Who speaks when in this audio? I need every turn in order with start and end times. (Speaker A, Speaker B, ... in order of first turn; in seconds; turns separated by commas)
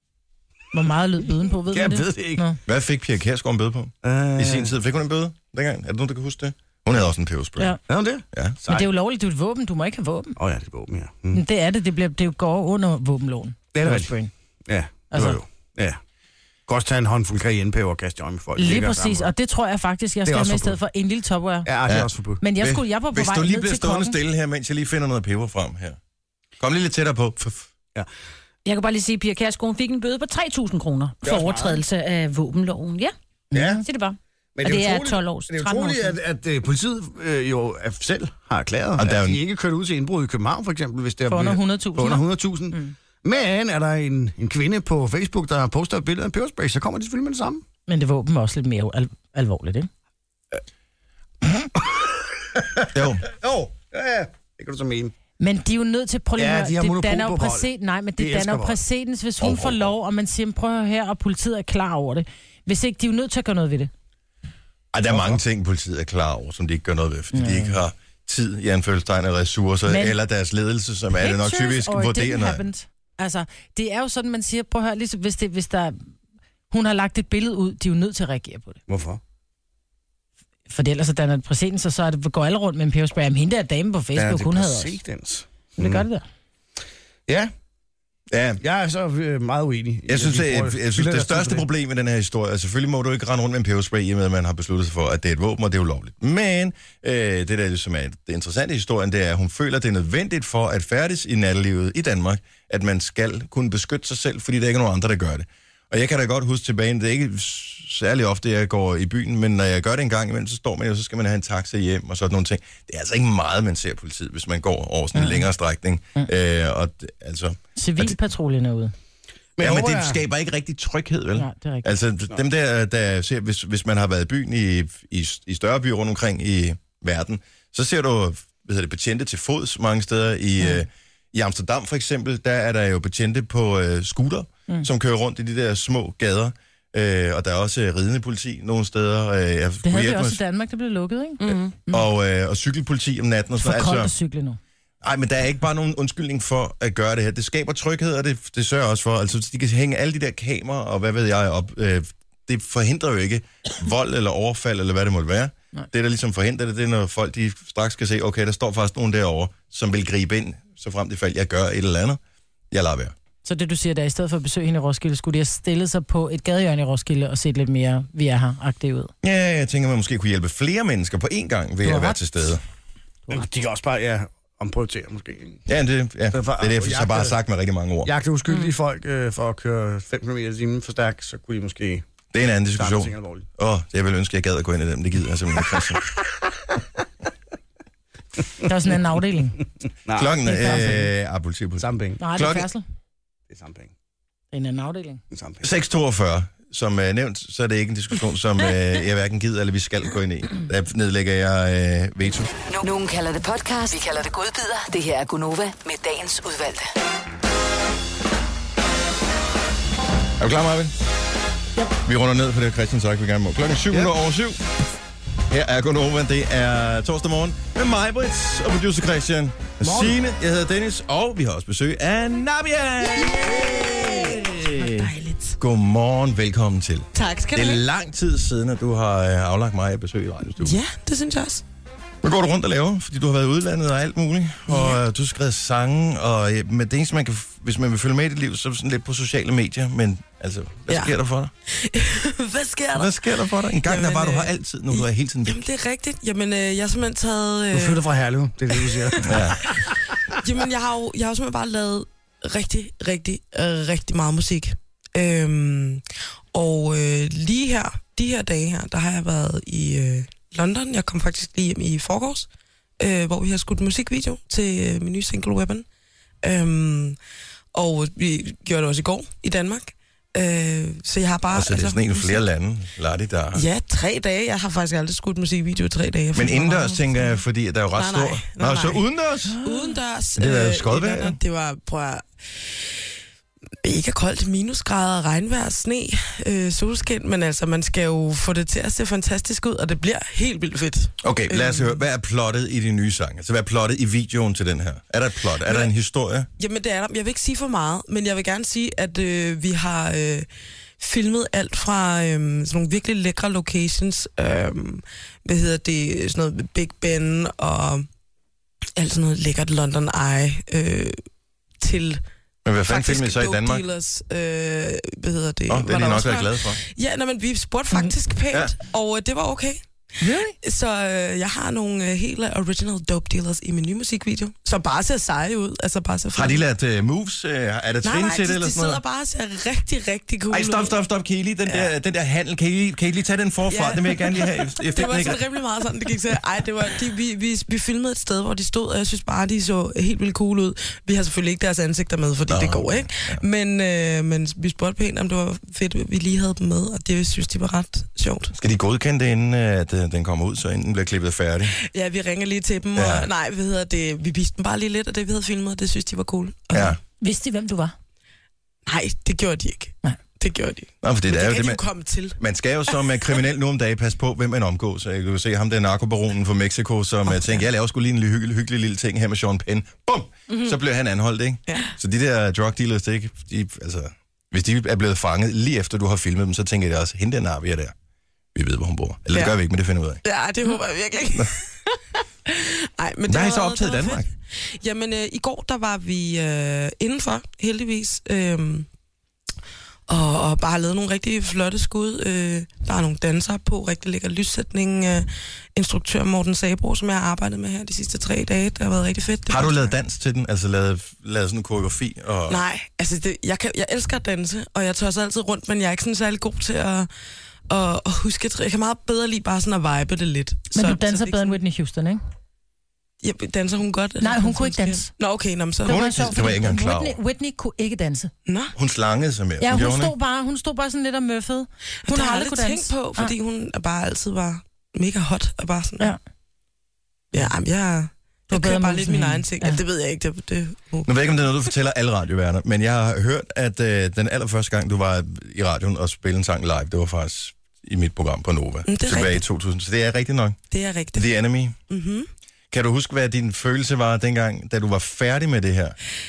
Speaker A: 0.7-2.6, Speaker B: 1.7-2.4, Speaker C: 2.6-7.7, Speaker B: 4.0-4.7, Speaker B: 7.9-8.9, Speaker A: 8.7-10.3, Speaker B: 10.4-11.4, Speaker A: 11.3-14.3, Speaker B: 13.7-14.1, Speaker B: 14.7-16.0, Speaker A: 15.1-15.4, Speaker B: 16.7-19.3, Speaker A: 18.6-21.7, Speaker B: 20.2-20.8, Speaker B: 21.6-22.4, Speaker C: 21.9-26.0, Speaker A: 22.4-24.2, Speaker C: 26.6-27.6, Speaker D: 28.6-33.1, Speaker B: 31.2-31.8, Speaker A: 33.5-33.8, Speaker B: 33.5-33.8, Speaker D: 33.8-36.2, Speaker B: 34.5-47.6, Speaker C: 39.0-39.4, Speaker A: 41.3-42.9, Speaker A: 47.9-49.9, Speaker B: 51.8-55.1, Speaker C: 52.9-53.2, Speaker A: 55.4-63.9, Speaker B: 56.4-58.8, Speaker C: 59.4-59.9, Speaker C: 64.9-72.6, Speaker B: 65.1-65.4, Speaker A: 67.3-67.8, Speaker A: 69.9-70.2, Speaker A: 71.2-76.0, Speaker A: 76.7-78.8, Speaker B: 78.9-79.2, Speaker A: 80.7-85.0, Speaker B: 84.2-86.0, Speaker A: 85.8-86.2, Speaker C: 88.3-88.6, Speaker B: 88.6-91.6, Speaker C: 90.1-118.2, Speaker A: 115.1-115.5, Speaker A: 117.8-118.9, Speaker B: 119.6-120.2, Speaker C: 119.6-140.4, Speaker A: 121.3-121.9, Speaker A: 139.8-142.0, Speaker D: 141.4-141.7, Speaker C: 141.9-144.1, Speaker A: 143.6-144.6, Speaker C: 145.0-162.2, Speaker C: 162.7-163.1, Speaker A: 163.4-169.1, Speaker C: 169.2-172.6, Speaker A: 171.8-172.2, Speaker B: 173.3-175.6, Speaker C: 175.7-178.1, Speaker B: 176.3-177.3, Speaker B: 178.0-182.0, Speaker C: 182.3-186.1, Speaker B: 182.8-183.4, Speaker A: 188.6-189.6, Speaker B: 190.1-190.4, Speaker C: 190.1-192.7, Speaker A: 190.4-191.1, Speaker B: 191.8-192.2, Speaker A: 192.2-192.8, Speaker B: 193.5-193.9, Speaker A: 194.5-195.2, Speaker B: 195.3-195.7, Speaker C: 195.6-202.5, Speaker E: 202.7-206.9, Speaker C: 210.4-210.9, Speaker C: 212.0-214.6, Speaker C: 215.5-230.8, Speaker B: 219.8-220.2, Speaker F: 223.2-225.6, Speaker F: 227.1-227.8, Speaker F: 230.6-231.6, Speaker C: 232.2-241.5, Speaker F: 241.8-248.0, Speaker C: 242.9-245.6, Speaker B: 247.7-250.0, Speaker F: 248.9-249.2, Speaker C: 249.2-249.6, Speaker F: 250.4-256.0, Speaker F: 256.5-262.5, Speaker F: 263.0-265.8, Speaker F: 266.4-267.2, Speaker F: 267.7-272.4, Speaker C: 271.5-273.7, Speaker F: 273.5-277.1, Speaker C: 276.3-279.6, Speaker F: 277.9-279.0, Speaker F: 279.6-282.2, Speaker C: 280.4-281.4, Speaker F: 283.8-291.9, Speaker C: 291.2-296.5, Speaker F: 295.6-295.9, Speaker F: 296.6-300.4, Speaker F: 301.0-308.1, Speaker F: 308.9-311.1, Speaker F: 311.8-312.2, Speaker C: 312.6-313.8, Speaker F: 312.9-319.8, Speaker C: 315.7-316.8, Speaker A: 320.2-320.6, Speaker F: 320.6-326.6, Speaker C: 326.3-329.0, Speaker F: 328.0-331.0, Speaker C: 330.5-335.4, Speaker F: 331.7-331.9, Speaker F: 333.7-348.5, Speaker C: 342.5-343.4, Speaker C: 348.6-351.8, Speaker F: 351.8-357.0, Speaker C: 352.9-353.3, Speaker C: 356.7-357.0, Speaker A: 357.2-357.9, Speaker F: 358.9-362.4, Speaker C: 361.0-361.8, Speaker C: 362.4-377.9, Speaker F: 370.5-370.8, Speaker F: 371.7-371.9, Speaker C: 378.5-380.2, Speaker F: 380.2-381.7, Speaker F: 382.5-388.9, Speaker C: 383.2-384.3, Speaker F: 390.1-399.9, Speaker C: 399.5-402.6, Speaker F: 402.5-407.1, Speaker F: 407.7-411.6, Speaker A: 410.7-412.2, Speaker F: 413.2-416.0, Speaker A: 414.2-415.1, Speaker C: 415.8-417.2, Speaker A: 415.8-418.3, Speaker F: 418.4-418.7, Speaker C: 418.7-420.1, Speaker A: 419.6-423.3, Speaker F: 422.0-426.1, Speaker F: 427.3-431.1, Speaker A: 428.5-429.8, Speaker C: 431.0-440.6, Speaker F: 438.9-439.4, Speaker F: 440.7-441.3, Speaker C: 441.1-441.7, Speaker F: 441.9-442.3, Speaker C: 442.7-445.9